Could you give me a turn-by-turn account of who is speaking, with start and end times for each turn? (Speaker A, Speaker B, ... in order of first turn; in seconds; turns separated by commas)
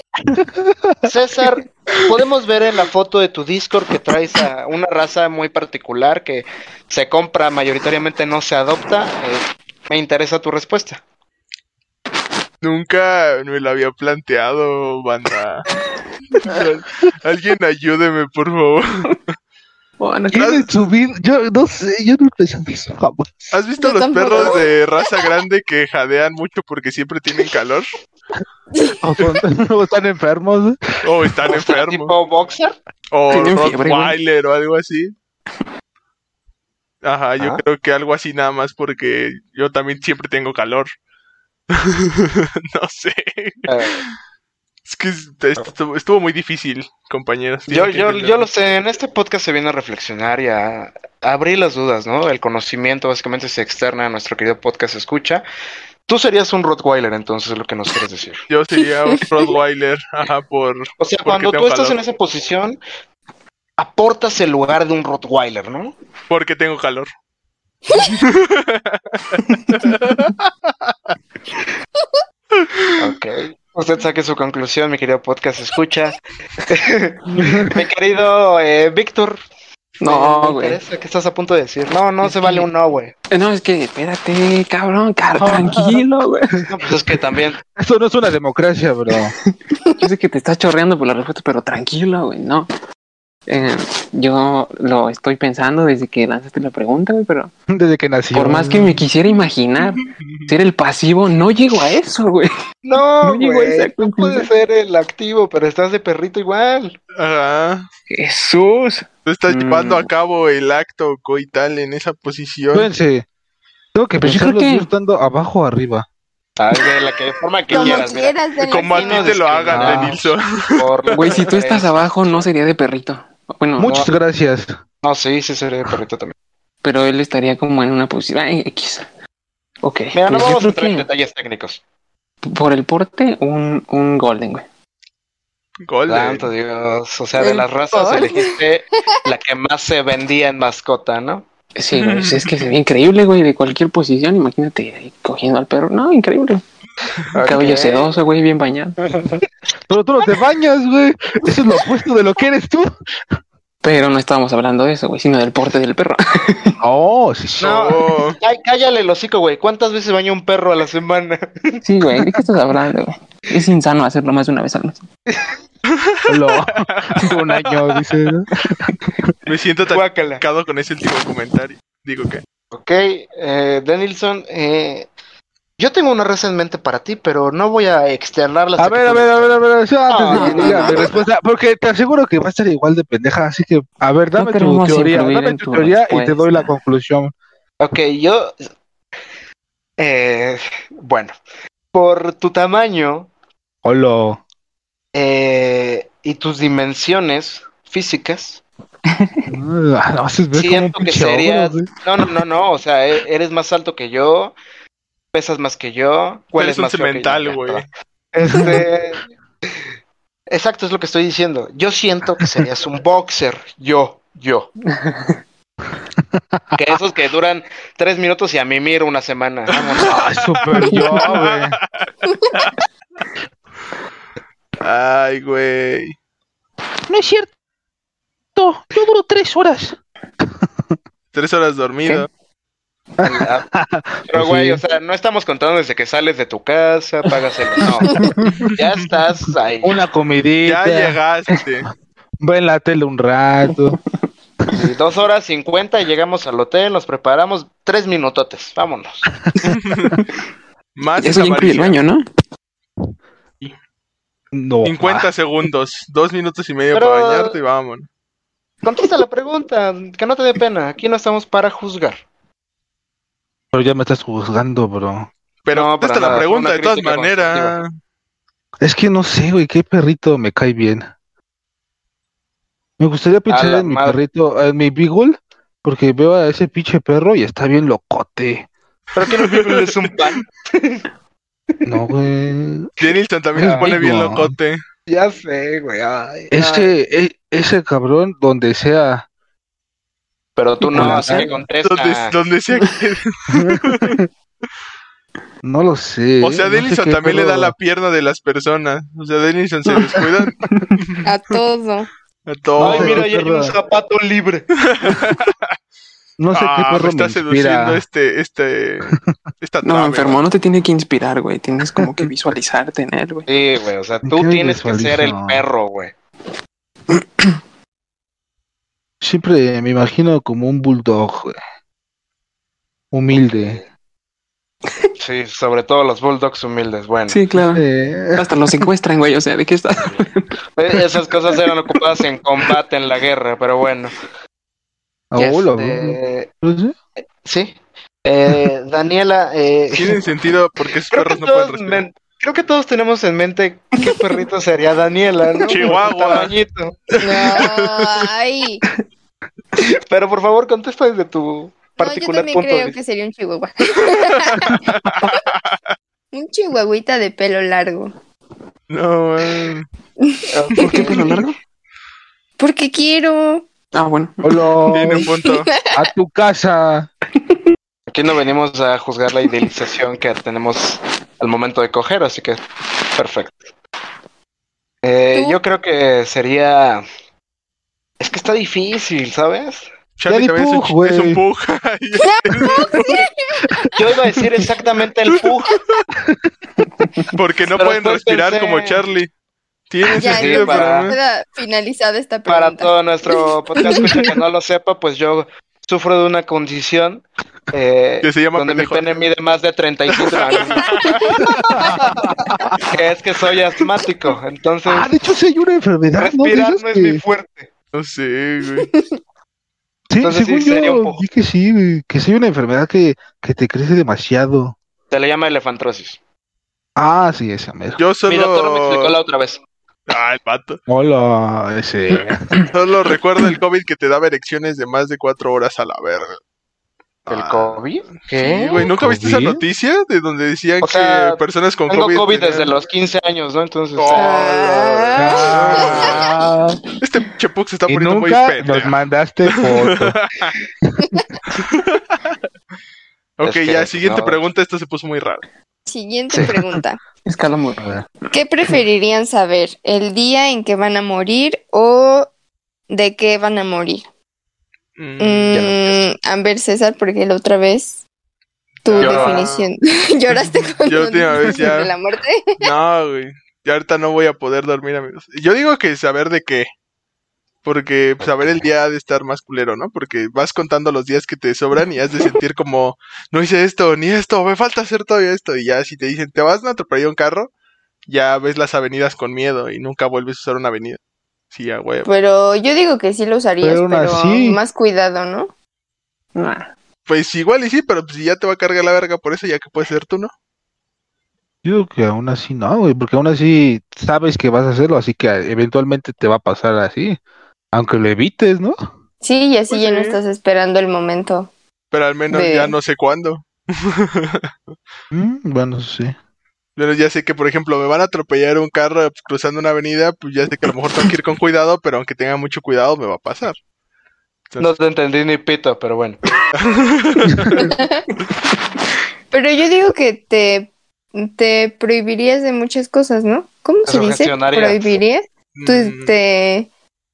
Speaker A: 0.3-1.1, Speaker B: 1.1-11.0, Speaker C: 12.6-15.7, Speaker C: 16.3-19.2, Speaker D: 20.0-20.6, Speaker A: 20.3-23.5, Speaker C: 20.4-20.7, Speaker C: 23.5-27.9, Speaker E: 23.8-24.7, Speaker A: 29.0-30.8, Speaker C: 31.0-32.1, Speaker B: 31.5-32.8, Speaker C: 33.1-35.1, Speaker D: 33.3-34.2, Speaker C: 37.0-40.9, Speaker C: 41.7-44.1, Speaker B: 43.7-44.0, Speaker C: 44.9-48.5, Speaker B: 47.7-55.4, Speaker B: 56.1-58.4, Speaker C: 58.5-62.0, Speaker E: 59.0-59.4, Speaker B: 61.0-62.8, Speaker B: 63.8-66.0, Speaker C: 66.3-67.1, Speaker C: 68.0-71.2, Speaker C: 72.6-73.0, Speaker B: 73.0-79.4, Speaker A: 77.3-77.8, Speaker D: 80.0-80.8, Speaker B: 80.1-83.1, Speaker D: 82.2-82.7, Speaker D: 83.3-86.7, Speaker A: 85.4-86.0, Speaker B: 86.7-87.6, Speaker A: 87.7-89.3, Speaker D: 89.9-92.7, Speaker D: 93.5-97.5, Speaker A: 97.7-99.0, Speaker D: 98.3-102.5, Speaker C: 100.0-100.5, Speaker B: 102.8-107.0, Speaker D: 103.2-104.5, Speaker C: 107.2-107.9, Speaker D: 108.1-110.1, Speaker C: 109.3-112.9, Speaker A: 112.7-113.2, Speaker A: 114.0-116.1, Speaker D: 114.2-114.9, Speaker B: 116.6-118.3, Speaker E: 117.7-119.4, Speaker C: 118.7-121.4, Speaker B: 118.9-122.5, Speaker A: 119.7-120.2, Speaker D: 121.1-124.0, Speaker A: 123.8-124.8, Speaker B: 123.8-124.1, Speaker B: 125.0-126.3, Speaker D: 126.8-129.1, Speaker D: 129.8-131.1, Speaker B: 130.2-131.8, Speaker D: 132.5-134.7, Speaker C: 135.9-136.5, Speaker B: 136.1-141.4, Speaker E: 137.4-138.6, Speaker D: 141.8-146.6, Speaker C: 142.0-142.7, Speaker B: 147.3-148.2, Speaker D: 147.4-149.0, Speaker A: 149.9-152.9, Speaker D: 153.8-156.8, Speaker A: 156.8-157.9, Speaker B: 157.6-161.8, Speaker C: 157.6-158.4, Speaker D: 161.8-165.1, Speaker C: 165.9-168.0, Speaker A: 166.3-169.3, Speaker C: 169.5-172.4, Speaker B: 169.9-170.4, Speaker B: 172.7-175.1, Speaker B: 175.8-181.2, Speaker A: 178.8-187.3, Speaker D: 180.3-181.2, Speaker D: 184.4-186.7, Speaker B: 187.8-188.6, Speaker B: 190.0-191.3, Speaker B: 191.9-193.3, Speaker A: 193.8-194.4, Speaker B: 195.1-198.6, Speaker D: 199.1-199.4, Speaker A: 199.5-201.9, Speaker B: 200.5-204.6, Speaker B: 205.3-209.2, Speaker C: 206.6-207.9, Speaker A: 208.5-208.9, Speaker B: 210.5-214.7, Speaker D: 214.9-215.4, Speaker A: 216.3-216.8, Speaker B: 216.8-220.2, Speaker C: 219.8-222.8, Speaker A: 220.1-221.8, Speaker D: 220.9-221.3, Speaker E: 222.3-222.6, Speaker C: 224.8-226.2, Speaker A: 227.1-227.5, Speaker A: 228.6-231.0, Speaker C: 231.3-232.3, Speaker A: 233.2-234.8, Speaker B: 233.2-233.7, Speaker B: 234.3-240.0, Speaker A: 238.1-238.5, Speaker A: 239.8-241.2, Speaker C: 240.7-241.9, Speaker A: 242.4-244.0, Speaker B: 244.7-249.3, Speaker A: 249.5-250.2, Speaker C: 249.7-250.2, Speaker C: 251.0-252.0, Speaker D: 251.2-252.2, Speaker A: 254.5-255.3, Speaker C: 254.8-258.1, Speaker B: 256.9-257.6, Speaker B: 258.8-262.2, Speaker A: 263.7-265.3, Speaker C: 265.6-267.9, Speaker B: 265.7-267.8, Speaker A: 268.8-271.1, Speaker A: 273.0-278.7, Speaker B: 273.5-274.2, Speaker B: 279.2-281.1, Speaker C: 279.2-280.1, Speaker A: 281.9-282.9, Speaker C: 283.0-284.8, Speaker A: 283.6-284.6, Speaker B: 283.6-283.9, Speaker B: 285.1-286.9, Speaker A: 286.5-289.3, Speaker B: 290.6-292.3, Speaker D: 290.9-291.5, Speaker A: 290.9-291.5, Speaker C: 291.8-294.2, Speaker A: 293.5-294.3, Speaker A: 295.6-297.7, Speaker C: 296.4-301.2, Speaker D: 300.1-300.9, Speaker E: 301.2-302.1, Speaker C: 302.5-303.3, Speaker A: 302.8-303.7, Speaker B: 302.8-304.7, Speaker C: 304.8-305.7, Speaker A: 306.4-308.0, Speaker C: 306.5-310.4, Speaker D: 309.8-313.5, Speaker A: 312.0-312.3, Speaker B: 313.5-316.1, Speaker A: 314.3-315.6, Speaker A: 319.2-321.6, Speaker A: 323.1-323.8, Speaker B: 323.3-323.8, Speaker B: 325.2-327.4, Speaker D: 327.3-327.9, Speaker A: 327.7-328.5, Speaker D: 328.4-330.5, Speaker B: 330.8-334.2, Speaker A: 335.3-336.9, Speaker B: 335.4-336.5, Speaker B: 337.4-340.2, Speaker C: 339.9-342.0, Speaker B: 341.1-347.0, Speaker C: 345.7-346.6, Speaker C: 347.1-348.3, Speaker E: 347.2-348.8, Speaker B: 349.8-353.0, Speaker E: 352.0-354.8, Speaker C: 354.5-355.8, Speaker E: 356.3-358.1, Speaker C: 358.9-359.9, Speaker E: 360.2-361.0, Speaker B: 360.5-361.4, Speaker D: 360.9-361.6, Speaker E: 362.6-363.7, Speaker D: 363.9-364.6, Speaker A: 364.4-365.3, Speaker C: 364.9-365.7, Speaker E: 365.3-365.9, Speaker A: 365.9-367.1, Speaker B: 368.1-372.6, Speaker B: 373.2-373.6, Speaker B: 375.0-377.0, Speaker E: 375.3-375.6, Speaker B: 378.2-379.9, Speaker C: 380.2-383.2, Speaker A: 380.3-381.4, Speaker E: 382.2-383.4, Speaker B: 384.0-385.8, Speaker C: 387.3-389.3, Speaker B: 387.7-389.0, Speaker C: 389.9-391.2, Speaker E: 390.2-394.3, Speaker B: 390.2-391.1, Speaker B: 392.5-401.1, Speaker C: 398.2-399.1, Speaker C: 400.2-401.4, Speaker E: 400.8-402.1, Speaker A: 401.4-402.8, Speaker B: 402.8-405.1, Speaker A: 404.9-407.2, Speaker B: 406.2-407.7, Speaker C: 407.9-408.9, Speaker E: 408.8-409.2, Speaker A: 410.1-414.8, Speaker B: 410.2-411.2, Speaker B: 415.1-416.2, Speaker A: 417.0-418.0, Speaker C: 418.0-419.1, Speaker B: 418.3-419.6, Speaker C: 420.1-420.8, Speaker A: 420.9-422.5, Speaker C: 422.7-426.4, Speaker C: 427.3-432.7, Speaker B: 427.3-428.9, Speaker A: 429.0-429.6, Speaker B: 430.8-435.3, Speaker C: 434.0-434.4, Speaker E: 434.1-436.2, Speaker A: 435.1-436.8, Speaker C: 435.4-436.3, Speaker B: 435.8-436.1, Speaker C: 437.0-438.9, Speaker A: 437.9-440.2, Speaker C: 439.5-440.6, Speaker C: 441.5-442.3, Speaker C: 443.4-445.4, Speaker B: 443.4-444.4, Speaker E: 445.9-447.0, Speaker D: 447.3-448.0, Speaker E: 448.3-452.3, Speaker E: 452.9-454.0, Speaker C: 455.0-455.7, Speaker E: 455.2-458.0, Speaker B: 455.5-456.0, Speaker E: 458.8-462.6, Speaker C: 458.9-459.7, Speaker B: 459.0-459.4, Speaker C: 460.9-461.9, Speaker C: 462.6-466.7, Speaker C: 467.6-477.5, Speaker C: 478.1-481.0, Speaker C: 481.5-482.1, Speaker E: 482.1-485.5, Speaker A: 483.6-484.6, Speaker D: 486.4-486.7, Speaker C: 487.1-490.3, Speaker A: 491.6-497.2, Speaker A: 497.7-498.8, Speaker E: 499.2-501.5, Speaker C: 499.7-500.2, Speaker C: 501.9-504.5, Speaker E: 502.3-502.8, Speaker A: 505.1-506.1, Speaker C: 506.8-513.6, Speaker B: 514.6-516.2, Speaker C: 516.5-517.7, Speaker E: 517.5-518.1, Speaker E: 519.3-526.7, Speaker B: 523.9-525.0, Speaker C: 525.5-526.1